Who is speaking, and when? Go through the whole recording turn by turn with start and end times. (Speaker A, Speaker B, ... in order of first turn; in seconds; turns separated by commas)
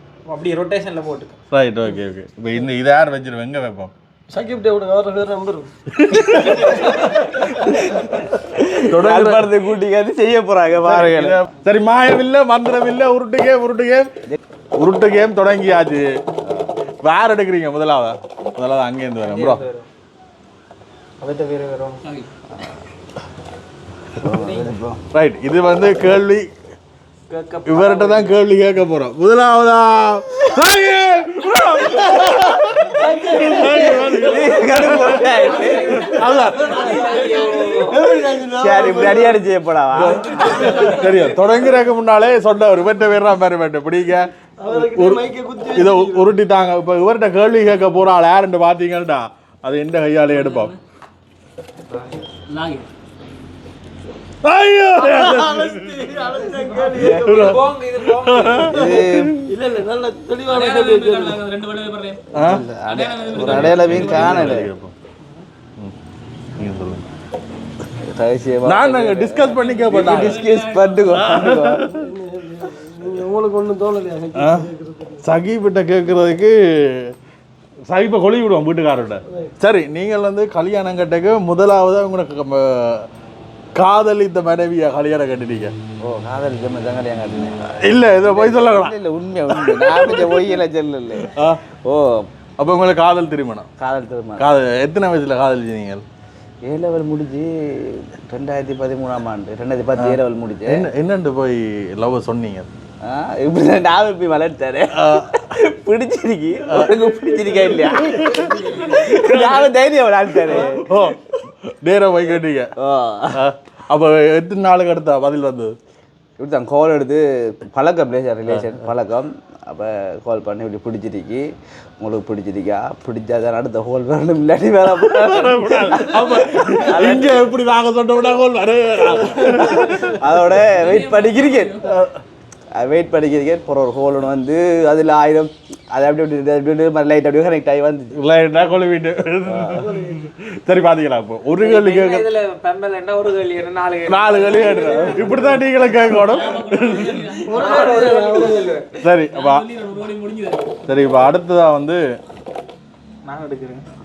Speaker A: 0.3-1.4, Speaker B: 1.5-3.9, Speaker C: 4.3-5.7, Speaker B: 6.0-8.0, Speaker D: 6.6-11.4, Speaker B: 8.9-9.5, Speaker B: 10.8-14.1, Speaker B: 14.8-16.1, Speaker B: 17.0-19.6, Speaker A: 19.2-19.9, Speaker A: 21.2-22.0, Speaker D: 24.2-25.0, Speaker A: 24.3-24.7, Speaker B: 25.1-26.5, Speaker A: 27.3-28.4, Speaker B: 27.6-37.0, Speaker D: 32.9-36.2, Speaker C: 33.0-39.4, Speaker A: 35.7-36.0, Speaker A: 36.9-38.0, Speaker D: 37.2-40.7, Speaker B: 40.0-50.7, Speaker C: 40.4-41.7, Speaker C: 44.6-46.3, Speaker E: 50.3-50.8, Speaker E: 52.5-52.9, Speaker B: 54.4-55.9, Speaker C: 54.9-57.5, Speaker D: 56.9-57.4, Speaker B: 57.1-57.6, Speaker A: 57.3-58.8, Speaker B: 58.1-59.4, Speaker D: 58.7-59.4, Speaker C: 59.5-61.4, Speaker E: 60.5-62.2, Speaker B: 62.3-62.6, Speaker D: 62.4-64.7, Speaker E: 62.9-64.3, Speaker B: 63.3-64.9, Speaker B: 66.6-67.0, Speaker D: 68.0-71.9, Speaker B: 68.7-70.4, Speaker E: 69.9-71.1, Speaker B: 71.2-72.0, Speaker C: 71.9-75.2, Speaker B: 74.4-74.7, Speaker B: 75.2-77.1, Speaker B: 77.9-83.0, Speaker B: 83.8-85.7, Speaker D: 86.0-87.5, Speaker B: 87.8-88.9, Speaker D: 88.2-91.3, Speaker B: 89.5-90.5, Speaker B: 91.2-91.6, Speaker D: 91.8-92.3, Speaker B: 92.6-93.7, Speaker D: 93.8-94.5, Speaker B: 94.4-96.0, Speaker D: 96.6-100.8, Speaker B: 100.0-102.7, Speaker D: 103.0-111.0, Speaker B: 104.9-105.3, Speaker C: 107.1-107.5, Speaker B: 108.0-108.4, Speaker B: 110.5-112.7, Speaker D: 112.8-113.4, Speaker B: 113.3-115.7, Speaker D: 116.4-121.5, Speaker D: 122.0-127.5, Speaker B: 125.1-130.2, Speaker D: 129.1-131.8, Speaker E: 130.7-131.9, Speaker B: 131.8-132.1, Speaker D: 132.7-138.1, Speaker B: 138.1-142.3, Speaker D: 139.5-139.9, Speaker C: 139.8-140.2, Speaker A: 141.6-145.6, Speaker B: 144.1-147.2, Speaker E: 146.2-147.9, Speaker C: 147.4-148.8, Speaker A: 147.6-148.9, Speaker B: 149.0-149.6, Speaker E: 149.3-150.6, Speaker B: 150.9-152.0, Speaker A: 153.2-153.8